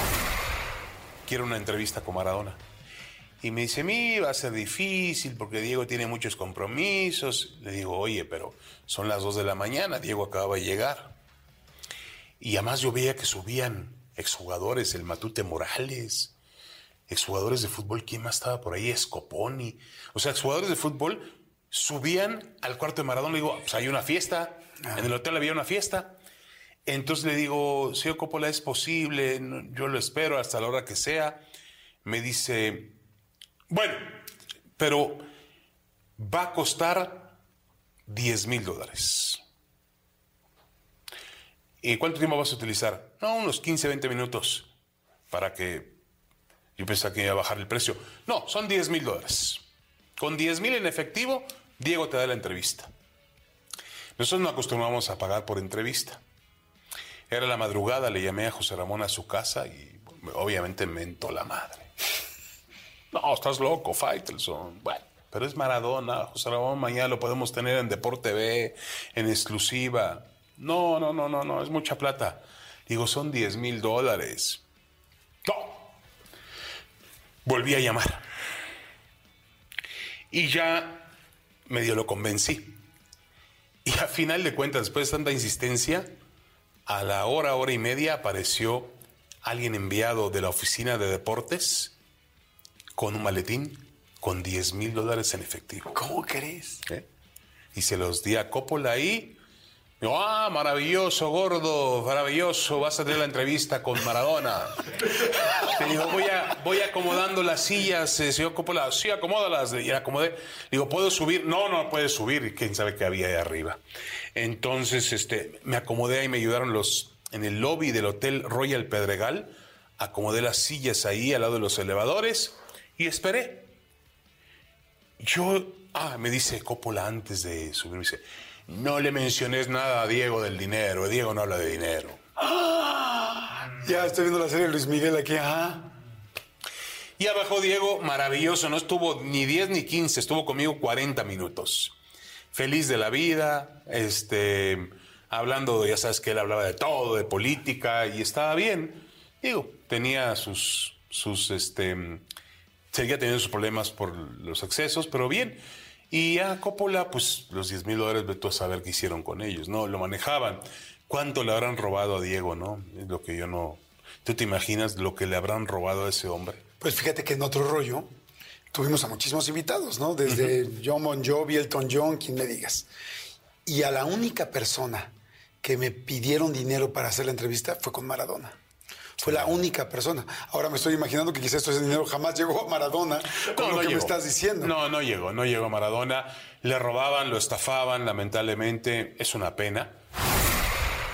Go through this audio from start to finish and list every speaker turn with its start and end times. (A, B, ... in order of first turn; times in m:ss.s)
0:01.2-0:02.6 A
0:03.4-0:11.2 A
0:12.4-0:16.3 A
0:17.1-0:26.2 A
0:26.8-0:31.4 A
0:32.0-0:33.0 A
0:33.7-0:34.2 A
0:34.8-0:35.2 A
0:36.2-0:37.4 A
0:38.1-0:39.4 A
0:41.8-0:44.7 A
0:45.3-0:46.0 A
0:46.8-0:49.6 A
0:50.2-0:52.9 A
0:54.2-0:56.2 A
0:57.3-1:01.9 A
1:03.1-1:14.6 A
1:15.4-1:15.9 A
1:17.4-1:18.2 A
1:20.3-1:21.1 A
1:21.7-1:22.8 A
1:23.8-1:26.1 A
1:26.8-1:32.0 A
1:33.0-1:36.0 A
1:35.9-1:36.8 B
1:37.7-1:39.4 A
1:40.0-1:53.8 A
1:54.3-2:03.7 A
2:05.2-2:12.2 A
2:12.4-2:15.9 B
2:17.2-2:21.9 A
2:22.5-2:32.2 A
2:32.9-2:46.6 A
2:46.8-2:48.1 B
2:48.7-2:52.9 B
2:50.3-2:50.5 A
2:53.6-2:58.6 B
2:59.2-2:59.6 A
2:59.2-3:04.7 B
3:03.4-3:10.0 A